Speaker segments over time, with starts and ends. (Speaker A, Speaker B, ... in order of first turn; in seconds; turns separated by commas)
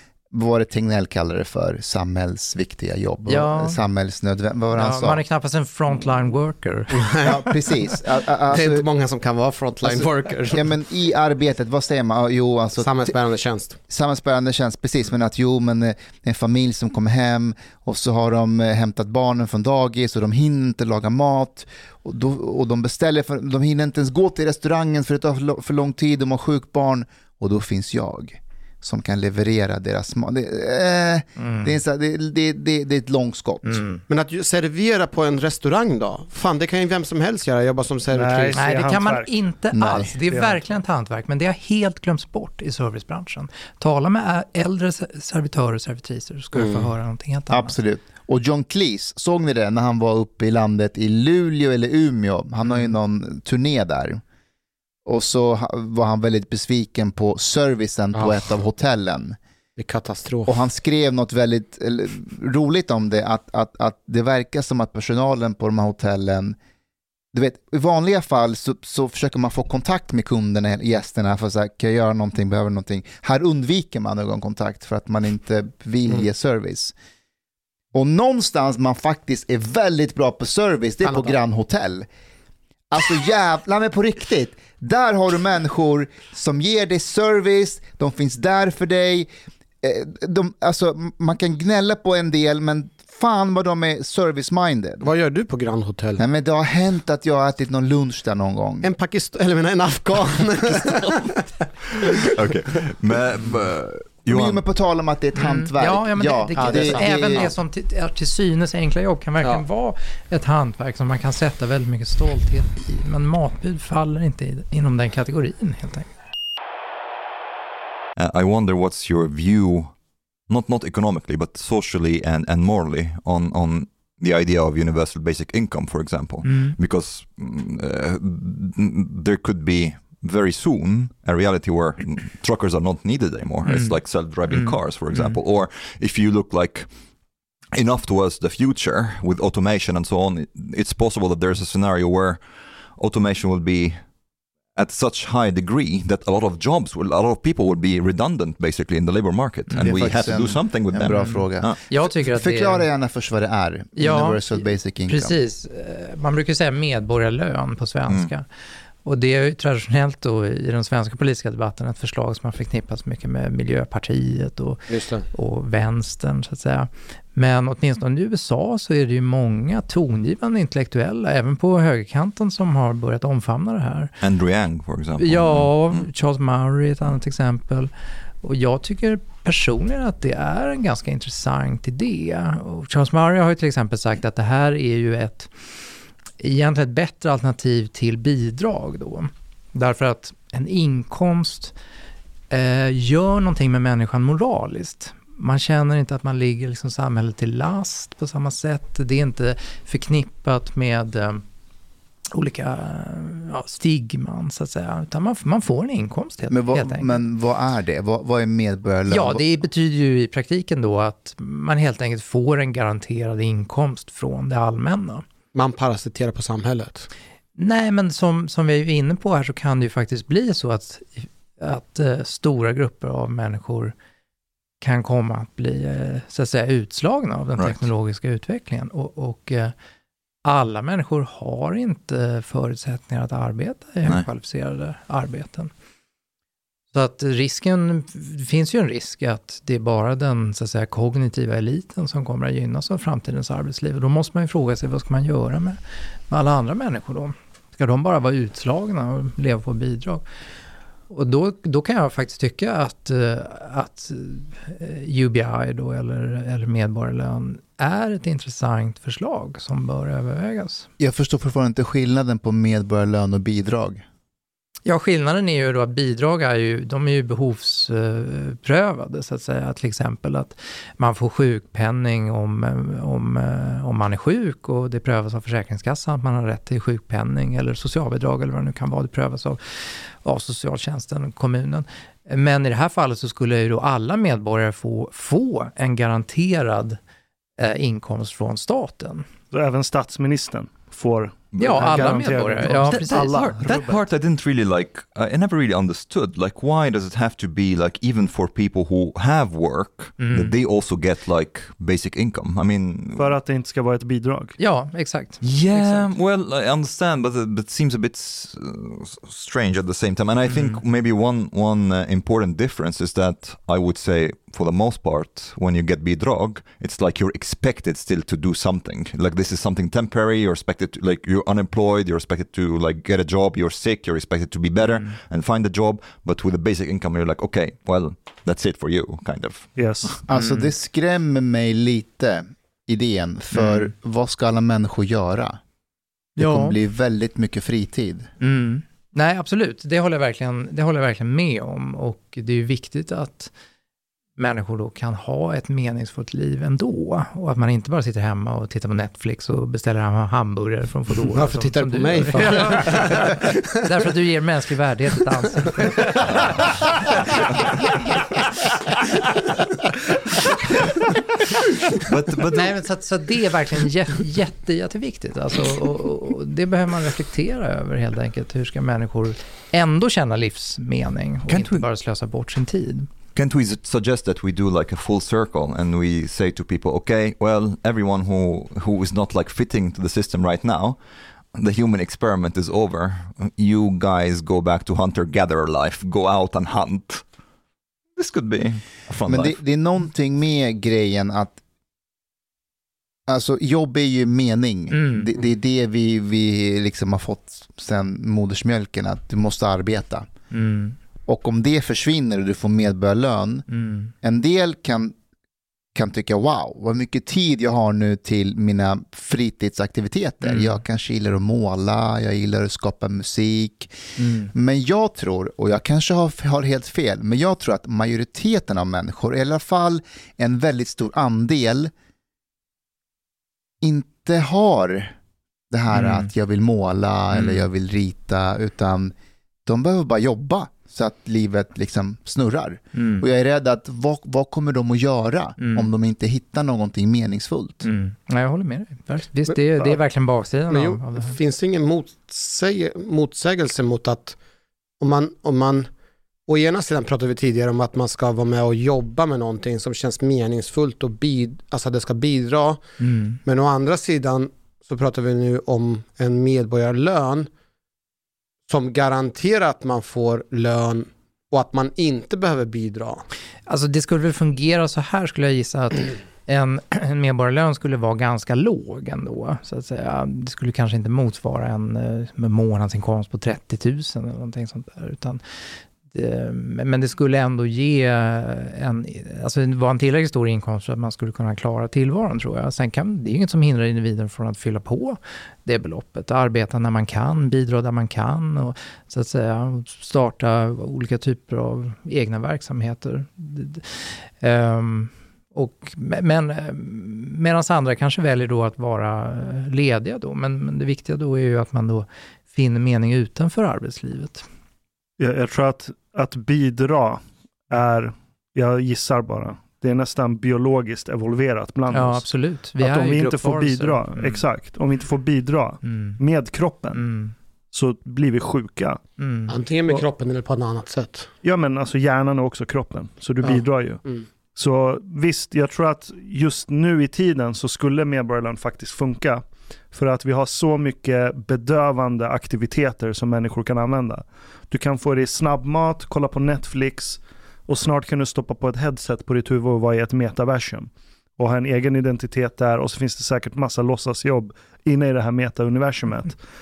Speaker A: 0.3-5.2, Speaker B: 3.3-3.8, Speaker B: 4.7-7.3, Speaker C: 6.9-7.4, Speaker A: 7.2-8.9, Speaker C: 8.5-10.7, Speaker A: 9.8-13.2, Speaker C: 12.8-13.8, Speaker A: 13.9-33.8, Speaker B: 31.4-31.8, Speaker B: 33.6-34.0, Speaker C: 34.1-38.7, Speaker D: 38.1-39.3, Speaker B: 38.5-47.8, Speaker A: 39.7-40.1, Speaker D: 40.3-40.6, Speaker C: 46.5-46.9, Speaker A: 47.5-54.2, Speaker A: 55.1-59.4, Speaker C: 59.8-60.6, Speaker A: 60.5-66.6, Speaker A: 67.3-76.9, Speaker A: 77.9-82.1, Speaker C: 81.0-81.4, Speaker A: 82.9-89.3, Speaker A: 89.8-95.1, Speaker C: 95.0-96.2, Speaker A: 96.2-98.9, Speaker C: 98.8-102.3, Speaker E: 102.3-104.6, Speaker A: 104.3-107.5, Speaker B: 105.4-116.1, Speaker C: 106.6-107.5, Speaker E: 118.2-120.0, Speaker E: 120.5-136.9, Speaker B: 126.5-126.8, Speaker B: 133.7-134.0, Speaker B: 134.5-135.4, Speaker E: 137.7-142.4, Speaker E: 143.0-144.0, Speaker E: 144.8-151.8, Speaker A: 149.8-155.4, Speaker B: 151.1-152.9, Speaker B: 154.0-158.4, Speaker B: 159.1-174.2, Speaker C: 164.9-165.3, Speaker E: 174.2-176.1, Speaker B: 175.2-177.9, Speaker B: 178.4-185.5, Speaker B: 186.4-191.7, Speaker B: 192.5-201.4, Speaker B: 202.3-207.2, Speaker A: 206.5-209.5, Speaker B: 209.1-215.2, Speaker C: 215.5-217.1, Speaker B: 217.6-223.9, Speaker B: 224.8-229.7, Speaker E: 227.6-227.8, Speaker B: 230.4-235.7, Speaker B: 236.9-245.8, Speaker B: 246.3-250.2, Speaker B: 251.1-260.9, Speaker A: 261.0-264.0, Speaker B: 264.9-287.0, Speaker B: 287.6-289.3, Speaker D: 289.5-294.0, Speaker E: 291.5-303.4, Speaker B: 291.6-293.8, Speaker B: 300.2-300.5, Speaker D: 303.2-304.6, Speaker B: 304.6-306.1, Speaker E: 305.4-329.8, Speaker B: 310.5-310.8, Speaker B: 324.8-325.1, Speaker D: 329.8-330.2, Speaker A: 330.3-335.6, Speaker B: 330.3-330.7, Speaker B: 333.5-333.9, Speaker B: 336.4-336.8, Speaker A: 336.4-338.3, Speaker B: 338.4-343.5, Speaker B: 344.4-356.7, Speaker C: 351.3-353.7, Speaker E: 362.0-362.8, Speaker B: 362.5-373.1, Speaker E: 371.5-371.9, Speaker E: 373.4-381.0, Speaker E: 381.5-387.2, Speaker E: 388.2-389.6, Speaker A: 389.3-391.6, Speaker A: 393.3-400.3, Speaker B: 394.9-395.3, Speaker B: 400.5-401.0, Speaker A: 401.3-403.7, Speaker B: 403.7-404.1, Speaker A: 404.2-405.2, Speaker A: 405.9-413.9, Speaker B: 410.4-410.8, Speaker B: 414.2-414.5, Speaker A: 414.5-421.9, Speaker A: 423.8-425.1, Speaker A: 425.7-429.1, Speaker B: 425.9-426.3, Speaker B: 427.3-427.7, Speaker A: 429.7-437.9, Speaker B: 432.9-433.3, Speaker B: 435.6-435.9, Speaker B: 437.8-441.4, Speaker C: 439.5-440.0, Speaker C: 440.7-444.4, Speaker C: 445.0-445.9, Speaker C: 446.5-452.8, Speaker B: 453.0-453.4, Speaker C: 453.4-457.5, Speaker C: 458.7-463.2, Speaker B: 463.7-475.4, Speaker B: 476.1-504.5, Speaker D: 505.2-517.1, Speaker B: 511.9-514.5, Speaker B: 515.8-516.2, Speaker B: 516.9-517.4, Speaker D: 517.7-519.0, Speaker B: 519.2-519.5, Speaker C: 519.5-521.3, Speaker D: 521.4-546.4, Speaker C: 523.4-524.3